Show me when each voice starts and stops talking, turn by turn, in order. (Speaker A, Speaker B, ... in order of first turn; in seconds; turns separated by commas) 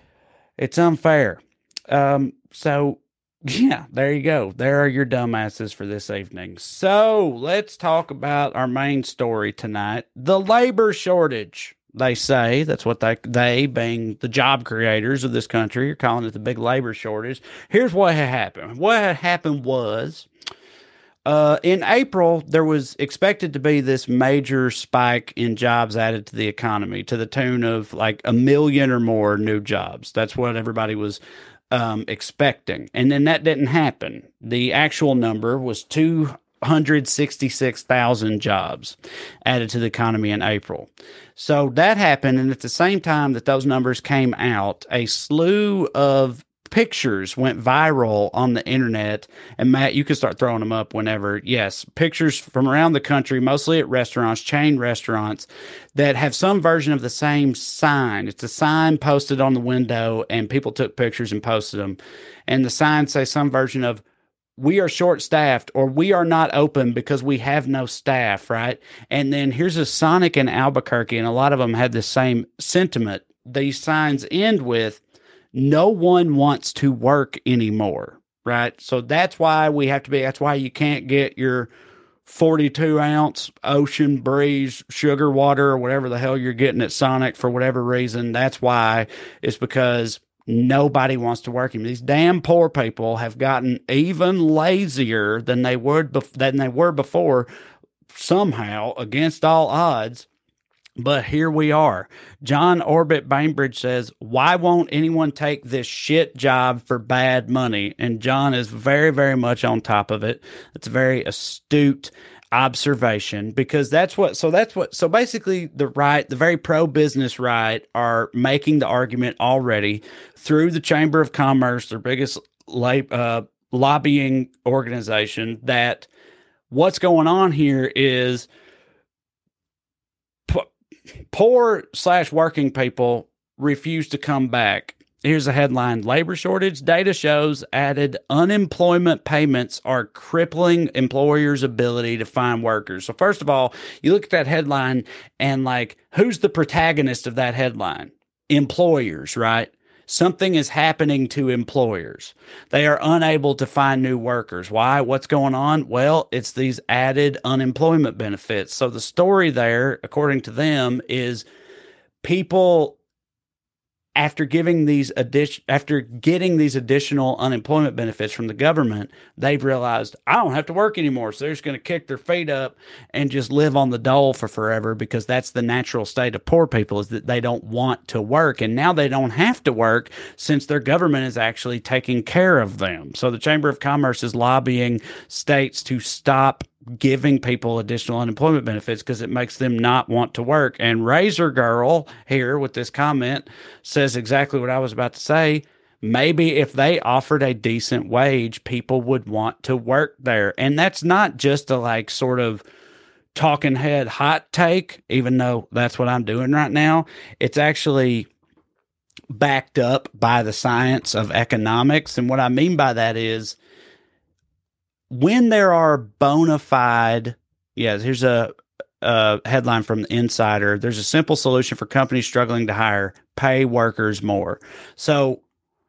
Speaker A: 0.6-20.3, Speaker A: 21.2-31.2, Speaker A: 31.7-64.0, Speaker A: 64.6-75.0, Speaker A: 75.5-81.7, Speaker A: 82.2-97.5, Speaker A: 98.1-100.3, Speaker A: 101.0-126.1, Speaker A: 126.7-128.5, Speaker A: 131.3-161.4, Speaker A: 162.2-163.0, Speaker A: 164.2-202.6, Speaker A: 203.3-208.3, Speaker A: 209.3-213.6, Speaker A: 215.1-225.4